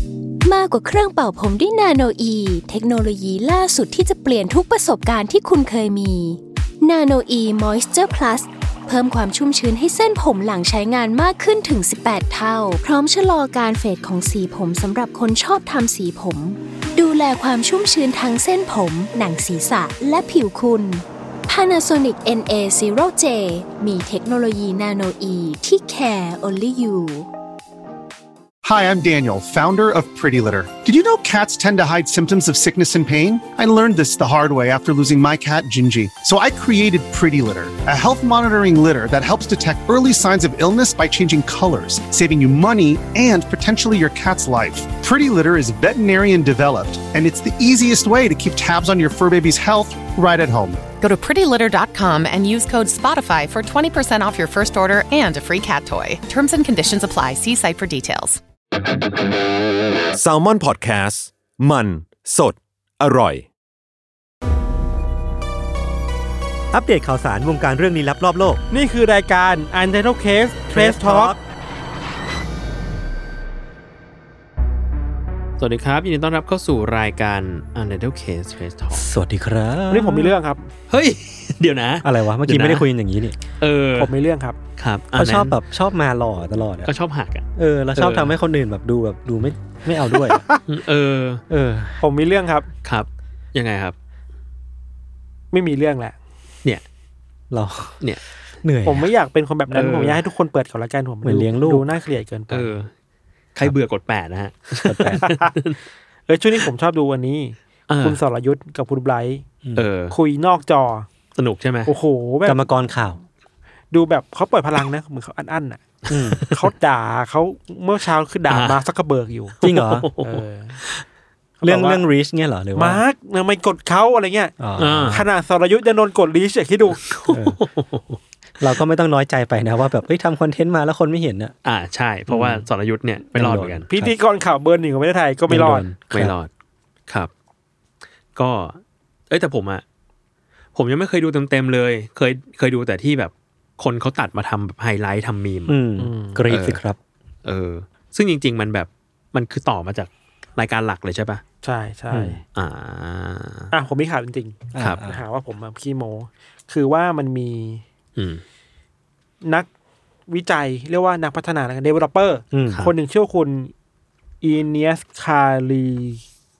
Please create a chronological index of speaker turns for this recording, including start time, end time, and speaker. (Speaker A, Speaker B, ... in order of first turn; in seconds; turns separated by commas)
Speaker A: 0.4-27.3, Speaker B: 28.6-50.9, Speaker C: 51.0-58.3, Speaker D: 60.1-63.5, Speaker E: 66.7-68.6, Speaker F: 68.7-71.3, Speaker E: 70.7-71.4, Speaker G: 75.6-79.0, Speaker E: 78.9-80.3, Speaker F: 79.9-80.7, Speaker G: 80.9-82.8, Speaker E: 82.0-83.4, Speaker G: 83.6-84.1, Speaker F: 84.0-84.6, Speaker G: 84.8-85.5, Speaker E: 85.2-86.9, Speaker G: 86.8-87.4, Speaker E: 87.5-90.5, Speaker G: 88.0-88.3, Speaker G: 90.7-91.4, Speaker E: 91.5-92.0, Speaker F: 92.0-92.7, Speaker G: 92.8-93.9, Speaker F: 95.5-96.2, Speaker E: 97.5-98.0, Speaker E: 98.6-99.1, Speaker F: 98.8-102.7, Speaker G: 99.7-100.2, Speaker E: 101.2-101.9, Speaker G: 102.5-102.9, Speaker G: 103.5-105.8, Speaker E: 104.8-105.2, Speaker F: 105.2-105.5, Speaker F: 106.3-109.4, Speaker G: 107.9-108.2, Speaker G: 109.8-110.1, Speaker F: 110.1-111.1, Speaker G: 111.4-111.9, Speaker F: 111.9-112.6, Speaker E: 112.4-113.2, Speaker F: 113.9-115.8, Speaker G: 116.0-116.7, Speaker E: 116.1-116.4, Speaker F: 116.4-119.5, Speaker G: 118.5-118.8, Speaker G: 119.6-121.0, Speaker E: 119.6-120.1, Speaker F: 120.2-120.8, Speaker F: 121.6-122.0, Speaker E: 121.6-123.0, Speaker F: 122.7-124.5, Speaker E: 124.6-125.2, Speaker G: 124.8-125.2, Speaker F: 125.1-127.0, Speaker G: 127.0-128.2, Speaker E: 127.3-127.6, Speaker E: 128.6-131.5, Speaker G: 131.6-133.9, Speaker E: 132.3-132.7, Speaker E: 133.3-134.1, Speaker F: 133.9-135.9, Speaker E: 135.5-136.3, Speaker G: 136.1-136.5, Speaker G: 138.3-138.8, Speaker G: 139.3-139.8, Speaker G: 140.7-145.8, Speaker E: 145.7-147.0, Speaker F: 146.0-146.5, Speaker G: 146.5-146.8, Speaker G: 147.4-151.4, Speaker F: 151.6-152.4, Speaker E: 152.1-152.4, Speaker G: 152.5-153.7, Speaker F: 153.7-157.8, Speaker E: 154.7-155.2, Speaker G: 158.2-158.4, Speaker F: 160.3-163.7, Speaker E: 162.5-162.9, Speaker F: 164.4-166.2